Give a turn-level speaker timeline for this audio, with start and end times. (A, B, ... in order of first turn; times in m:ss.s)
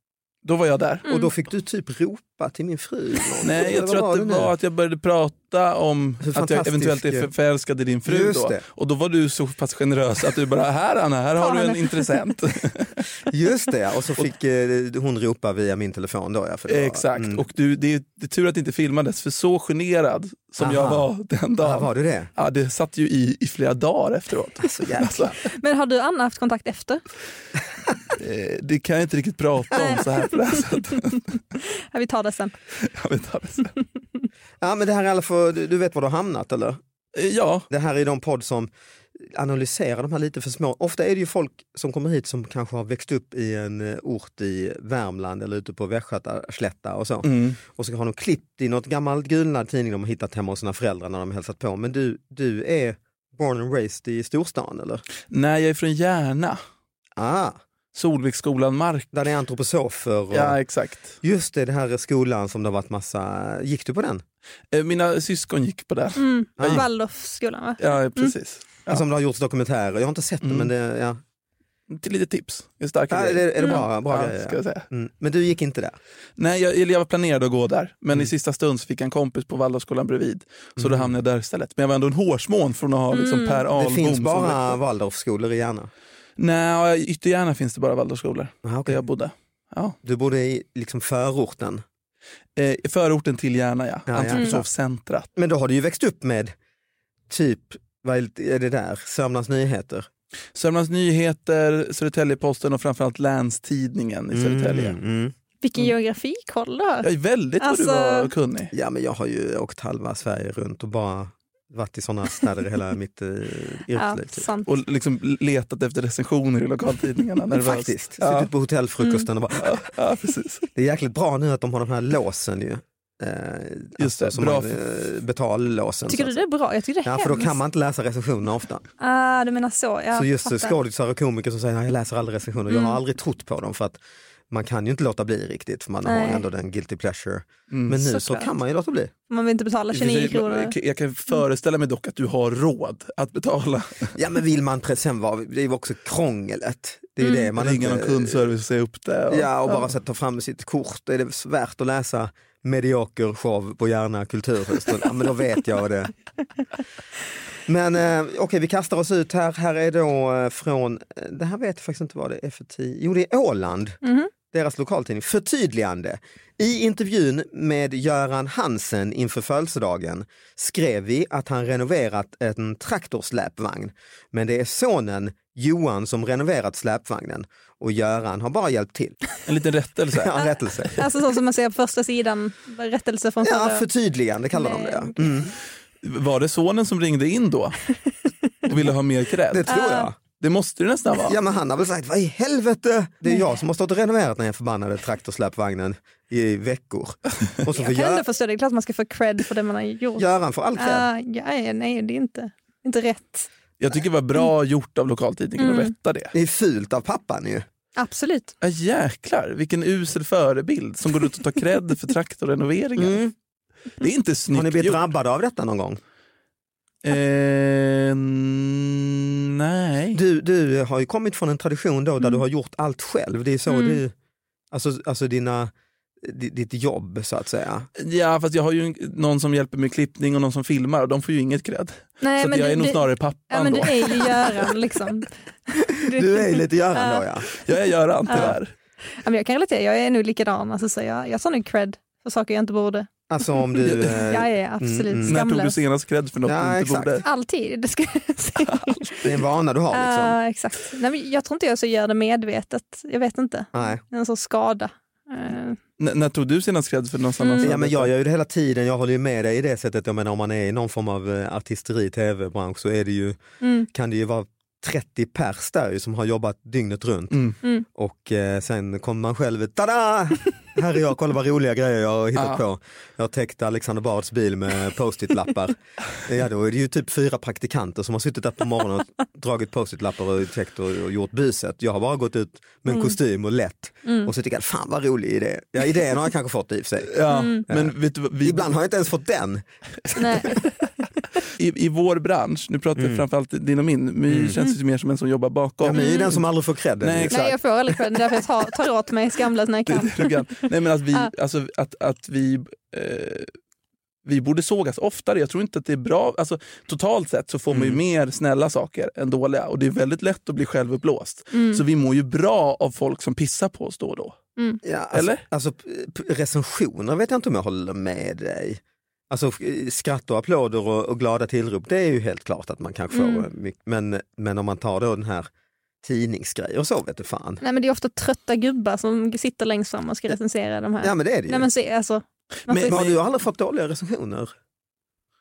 0:00.4-0:01.0 A
0:01.0-0:01.3 B
0:01.1-0:04.5 C
0:03.4-0:13.0 A
0:06.2-0:07.3 C
0:08.1-0:08.6 C
0:11.4-0:12.1 B
0:13.3-0:17.4 C
0:16.7-0:25.4 A
0:20.6-0:21.1 C
0:21.6-0:22.3 C
0:24.7-0:25.3 C
0:25.6-0:27.0 B
0:28.2-0:31.2 A
0:31.9-0:32.5 B
0:32.8-0:33.7 A
0:34.6-0:36.8 C
0:37.2-0:37.7 A
0:37.7-0:55.0 C
0:47.2-0:47.6 A
0:55.3-0:56.6 A
0:57.2-0:57.6 C
0:58.0-0:59.1 A
0:59.1-1:00.6 C
1:00.3-1:01.2 A
1:01.2-1:04.2 C
1:04.7-1:06.8 A
1:06.2-1:08.4 B
1:06.6-1:06.8 C
1:07.8-1:09.0 A
1:08.9-1:11.2 C
1:10.4-1:10.7 A
1:11.9-1:14.8 A
1:13.1-1:16.0 C
1:16.4-1:24.8 A
1:20.8-1:21.1 C
1:23.1-1:23.7 B
1:23.7-1:25.9 C
1:26.4-1:30.0 A
1:28.6-1:29.0 C
1:30.0-1:31.8 C
1:32.6-1:35.3 A
1:34.1-1:34.7 C
1:34.3-1:34.6 B
1:35.4-1:36.5 C
1:37.3-1:40.1 C
1:40.6-1:45.0 A
1:44.3-1:45.4 C
1:45.6-1:47.1 B
1:47.0-1:48.7 A
1:47.6-1:48.3 B
1:48.7-1:54.5 C
1:54.0-1:54.7 B
1:54.7-1:58.5 A
1:57.5-1:59.8 C
1:59.6-2:00.6 A
2:00.8-2:06.4 C
2:04.0-2:04.8 A
2:06.1-2:07.6 B
2:07.0-2:08.8 C
2:09.0-2:10.8 B
2:10.1-2:19.1 C
2:12.7-2:13.0 B
2:16.0-2:16.4 B
2:17.7-2:18.0 A
2:18.0-2:18.5 B
2:19.3-2:20.7 B
2:19.9-2:24.2 A
2:24.2-2:28.6 C
2:27.6-2:29.5 A
2:29.3-2:36.1 C
2:37.7-2:59.2 C
2:44.0-2:44.3 B
2:59.5-3:00.4 A
3:00.2-3:00.9 C
3:01.0-3:03.8 B
3:03.4-3:05.5 C
3:04.6-3:05.2 B
3:06.0-3:07.8 A
3:08.7-3:11.4 A
3:09.5-3:10.2 C
3:09.7-3:10.1 B
3:11.3-3:18.2 C
3:17.8-3:20.2 B
3:20.2-3:21.1 C
3:20.8-3:23.5 B
3:23.8-3:26.3 A
3:25.6-3:25.9 B
3:26.3-3:27.6 C
3:28.0-3:28.5 B
3:28.6-3:33.2 A
3:33.0-3:33.3 C
3:34.0-3:35.0 A
3:34.5-3:36.0 C
3:37.0-3:40.2 A
3:40.1-3:44.1 C
3:43.7-3:44.0 B
3:44.7-3:47.9 C
3:48.0-3:54.8 A
3:52.2-3:57.2 B
3:56.1-3:57.5 C
3:57.6-3:58.7 A
3:58.3-3:58.6 B
3:59.2-4:03.1 B
4:03.3-4:05.4 C
4:03.8-4:05.8 B
4:03.8-4:04.1 A
4:05.3-4:07.2 A
4:06.4-4:07.2 C
4:07.2-4:09.2 B
4:08.7-4:09.0 A
4:09.2-4:10.4 C
4:09.9-4:15.8 B
4:13.7-4:14.0 C
4:16.0-4:18.1 A
4:17.4-4:17.7 B
4:17.6-4:27.4 C
4:23.6-4:23.9 B
4:28.0-4:47.2 C
4:32.4-4:32.6 A
4:42.9-4:43.2 B
4:44.0-4:44.3 B
4:47.1-4:48.7 A
4:47.3-4:47.7 B
4:47.7-4:49.6 C
4:50.2-4:50.7 B
4:51.6-4:56.4 A
4:53.0-4:53.2 C
4:54.3-4:54.6 C
4:55.8-4:57.5 C
4:55.9-4:56.3 B
4:57.0-4:57.6 A
4:57.3-5:00.4 B
4:59.9-5:03.5 A
5:04.2-5:14.4 A
5:07.7-5:08.0 C
5:11.5-5:11.8 B
5:14.8-5:25.5 C
5:15.1-5:15.4 A
5:23.1-5:23.5 B
5:26.0-5:27.6 C
5:27.6-5:33.0 B
5:31.0-5:31.7 C
5:32.7-5:33.2 A
5:32.9-5:34.5 C